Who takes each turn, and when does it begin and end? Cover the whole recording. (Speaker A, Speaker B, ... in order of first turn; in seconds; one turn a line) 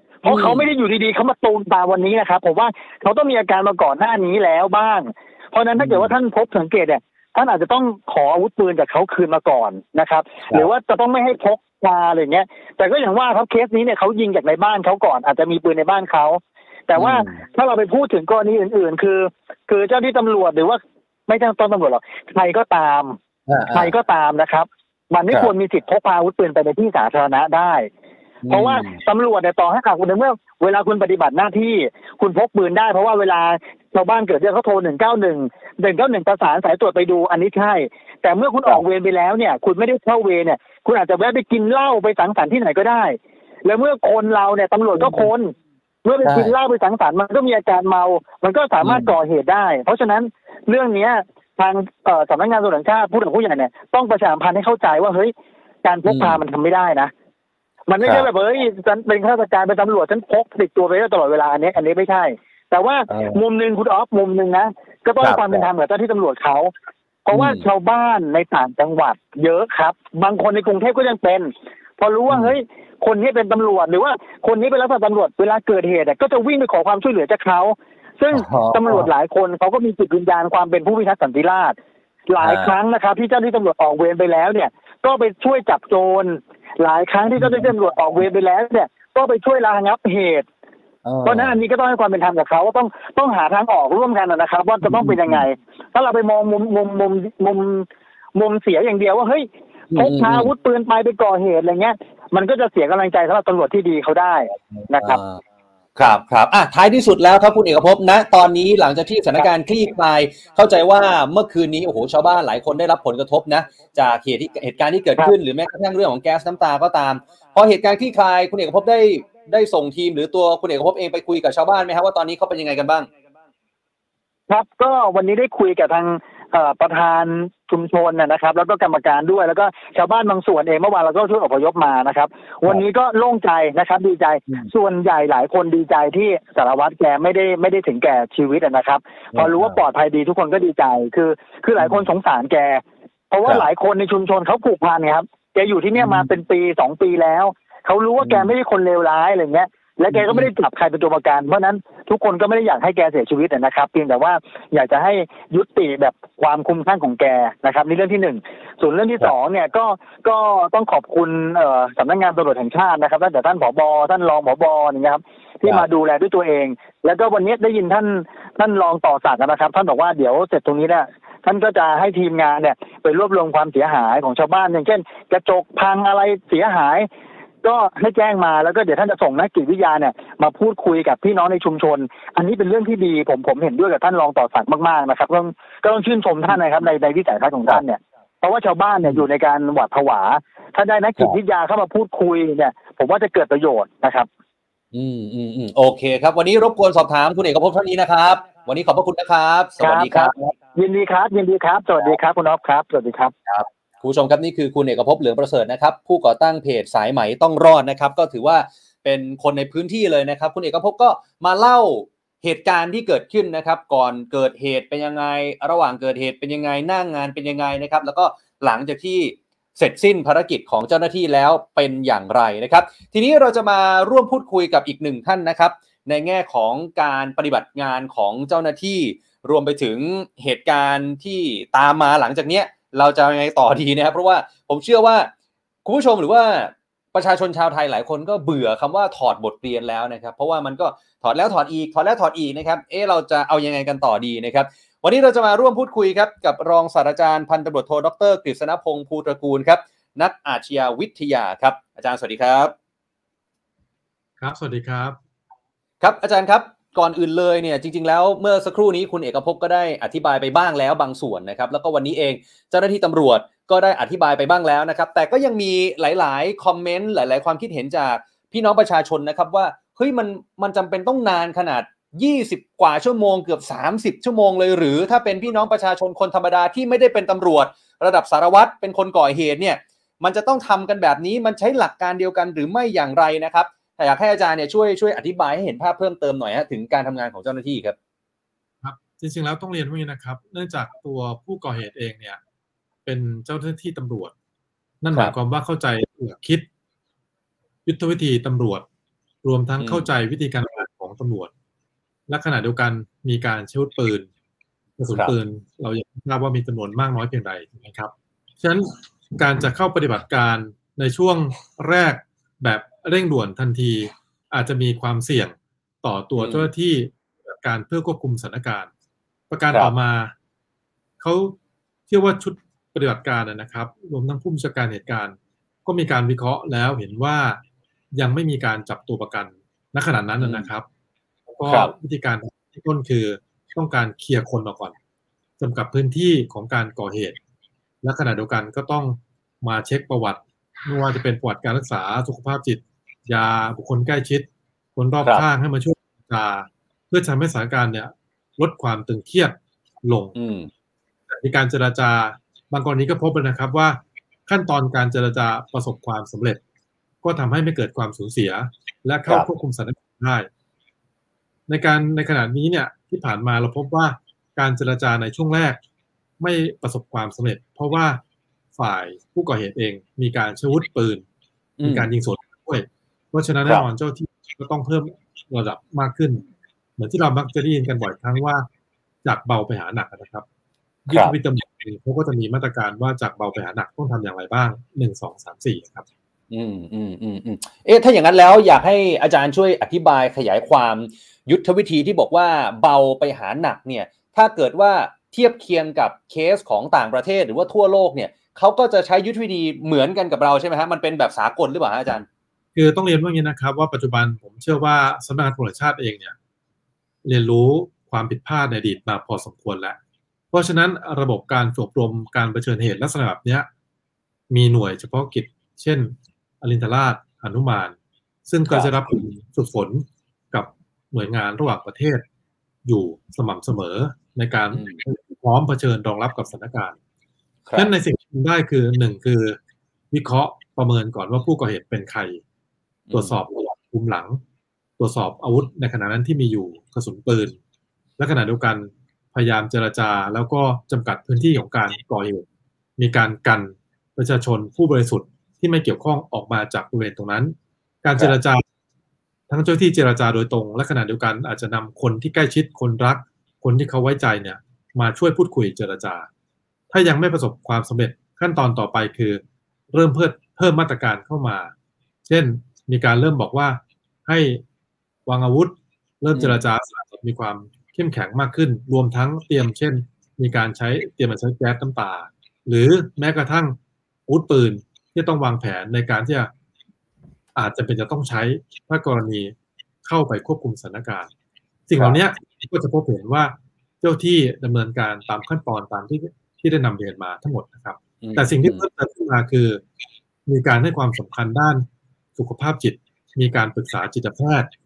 Speaker A: 0.2-23.2
Speaker B: 0.3-0.7
Speaker B: 5.8-6.1
Speaker B: 17.0-17.4
Speaker B: 23.5-23.9
Speaker A: 23.7-27.9
Speaker B: 28.4-29.0
Speaker A: 28.5-45.5
Speaker B: 45.0-45.3
Speaker A: 46.0-57.1
Speaker B: 46.2-46.5
Speaker B: 48.8-49.1
Speaker B: 56.1-56.4
Speaker A: 57.9-66.7
Speaker B: 58.0-58.2
Speaker B: 63.1-63.4
Speaker B: 65.2-65.7
Speaker A: 67.3-81.8
Speaker B: 67.3-67.7
Speaker B: 72.3-72.6
Speaker B: 78.3-79.1
Speaker A: 82.3-90.5
Speaker B: 82.4-82.7
Speaker B: 87.4-87.7
Speaker B: 91.0-91.6
Speaker A: 91.2-105.2
Speaker B: 94.8-95.4
Speaker B: 99.9-100.5
Speaker B: 104.7-105.4
Speaker B: 106.0-123.1
Speaker A: 124.5-177.1
Speaker B: 139.3-139.8
Speaker B: 141.8-142.1
Speaker B: 146.0-146.3
Speaker B: 148.2-148.5
Speaker B: 150.1-150.5
Speaker A: 177.6-194.3
Speaker B: 194.9-200.5
Speaker A: 199.8-203.3
Speaker B: 203.5-235.3
Speaker B: 235.8-252.7
Speaker C: 254.4-255.2
Speaker B: 256.0-288.0
Speaker C: 288.8-292.4
Speaker C: 293.1-294.3
Speaker C: 295.0-296.7
Speaker C: 297.9-298.9
Speaker C: 299.4-301.5
Speaker B: 299.8-300.1
Speaker C: 302.3-304.3
Speaker C: 305.0-318.9
Speaker B: 316.4-316.7
Speaker C: 319.5-320.3
Speaker C: 321.2-321.6
Speaker C: 322.1-327.6
Speaker C: 328.1-330.9
Speaker B: 330.4-330.7
Speaker C: 331.5-334.9
Speaker B: 331.7-331.9
Speaker C: 335.6-337.4
Speaker C: 338.0-350.4
Speaker B: 350.4-350.7
Speaker C: 351.3-356.6
Speaker C: 357.2-360.5
Speaker C: 361.7-365.8
Speaker C: 366.4-368.2
Speaker C: 368.8-371.2
Speaker B: 371.8-372.1
Speaker C: 371.8-376.4
Speaker C: 377.0-378.7
Speaker C: 379.2-380.4
Speaker C: 381.1-386.1
Speaker B: 381.1-381.4
Speaker B: 386.5-402.3
Speaker C: 402.8-406.4
Speaker C: 407.2-410.0
Speaker C: 410.5-413.7
Speaker C: 414.5-418.0
Speaker C: 418.5-422.2
Speaker C: 422.9-427.0
Speaker B: 424.7-425.0
Speaker B: 427.7-427.9
Speaker C: 427.8-429.6
Speaker C: 430.1-432.4
Speaker B: 433.1-433.4
Speaker C: 433.1-434.4
Speaker C: 435.0-437.6
Speaker C: 438.2-442.4
Speaker C: 443.0-448.6
Speaker C: 449.5-456.3
Speaker C: 456.9-461.7
Speaker C: 462.2-464.6
Speaker C: 465.3-476.5
Speaker B: 466.4-466.6
Speaker C: 477.6-481.3
Speaker C: 481.9-489.8
Speaker B: 488.2-488.9
Speaker C: 490.5-494.7